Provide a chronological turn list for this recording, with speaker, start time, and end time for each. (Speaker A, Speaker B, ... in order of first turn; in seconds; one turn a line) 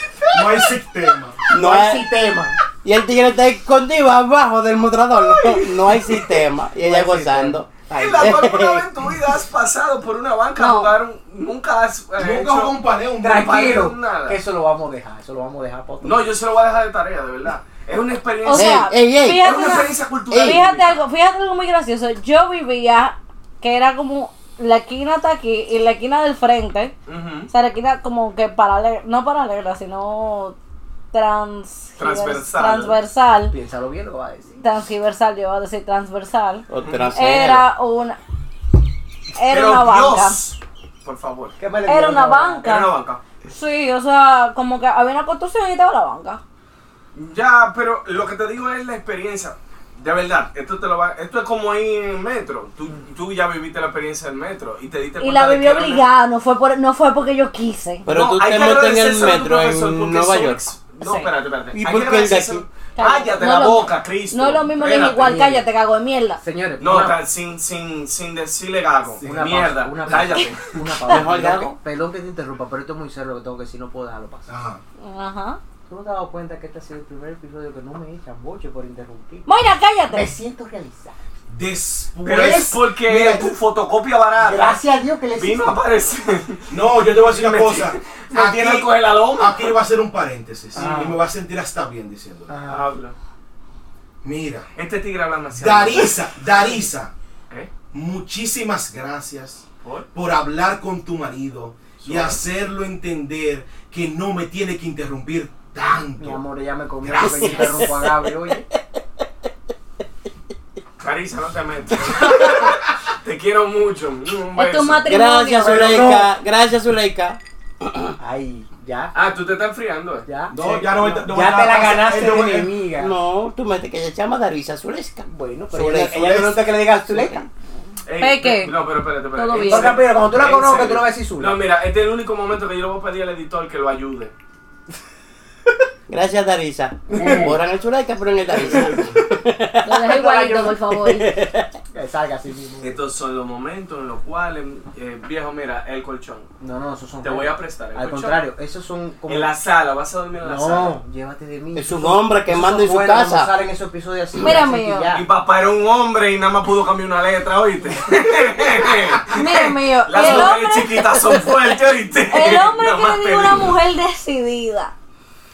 Speaker A: 0.3-1.4
Speaker B: 0.3-0.7
Speaker B: 1.5-2.6
Speaker C: 1.5-2.1
Speaker C: 2.8-8.8
Speaker D: 5.1-6.3
Speaker B: 6.8-8.5
Speaker D: 7.9-12.7
Speaker E: 10.6-10.9
Speaker A: 12.2-13.6
Speaker B: 13.2-16.3
Speaker D: 13.3-14.4
Speaker D: 16.0-18.9
Speaker E: 18.4-26.9
Speaker C: 18.5-20.6
Speaker D: 19.4-21.0
Speaker D: 27.1-27.5
Speaker E: 27.5-30.6
Speaker E: 31.1-33.5
Speaker D: 32.0-33.0
Speaker B: 33.5-34.6
Speaker E: 34.6-38.2
Speaker C: 36.7-37.7
Speaker D: 36.8-37.1
Speaker E: 39.3-40.4
Speaker D: 39.5-41.6
Speaker B: 41.6-42.6
Speaker E: 41.9-42.9
Speaker D: 42.6-43.2
Speaker E: 43.5-46.4
Speaker D: 47.1-56.0
Speaker E: 55.2-58.1
Speaker C: 58.0-60.6
Speaker D: 58.1-65.3
Speaker E: 61.0-61.3
Speaker C: 61.7-62.6
Speaker E: 63.0-66.4
Speaker B: 65.1-65.6
Speaker B: 66.4-67.2
Speaker D: 66.8-70.7
Speaker A: 69.2-69.5
Speaker B: 69.2-74.5
Speaker C: 71.1-71.8
Speaker A: 74.5-74.8
Speaker E: 75.0-75.6
Speaker B: 75.9-79.5
Speaker E: 79.5-80.3
Speaker B: 80.1-81.2
Speaker A: 81.5-83.5
Speaker D: 82.2-84.8
Speaker B: 84.4-85.8
Speaker D: 85.3-89.8
Speaker A: 86.7-92.5
Speaker D: 90.7-91.1
Speaker B: 90.7-91.2
Speaker B: 92.5-92.8
Speaker D: 92.7-93.2
Speaker A: 94.2-94.7
Speaker D: 94.8-96.9
Speaker A: 95.5-97.1
Speaker A: 97.9-106.4
Speaker D: 99.8-100.1
Speaker D: 102.0-102.4
Speaker B: 106.2-108.7
Speaker A: 107.0-107.9
Speaker C: 107.1-108.2
Speaker D: 111.0-115.1
Speaker A: 112.3-112.8
Speaker E: 114.5-116.2
Speaker C: 115.0-118.1
Speaker B: 115.6-116.3
Speaker B: 118.2-119.1
Speaker D: 119.1-120.3
Speaker B: 120.3-123.1
Speaker A: 120.5-122.7
Speaker C: 122.9-127.5
Speaker B: 125.3-127.4
Speaker D: 128.0-134.3
Speaker E: 128.2-128.7
Speaker E: 129.3-130.0
Speaker B: 129.7-131.6
Speaker C: 136.1-140.2
Speaker B: 137.1-137.6
Speaker D: 138.6-139.2
Speaker E: 139.8-141.3
Speaker B: 140.1-140.8
Speaker C: 140.9-141.7
Speaker B: 141.9-143.0
Speaker D: 142.8-146.5
Speaker B: 146.6-149.5
Speaker D: 147.2-148.5
Speaker D: 149.3-151.0
Speaker B: 150.4-155.2
Speaker C: 151.7-153.5
Speaker E: 154.3-155.1
Speaker D: 155.1-163.7
Speaker E: 159.3-161.4
Speaker B: 160.1-160.5
Speaker E: 162.3-164.9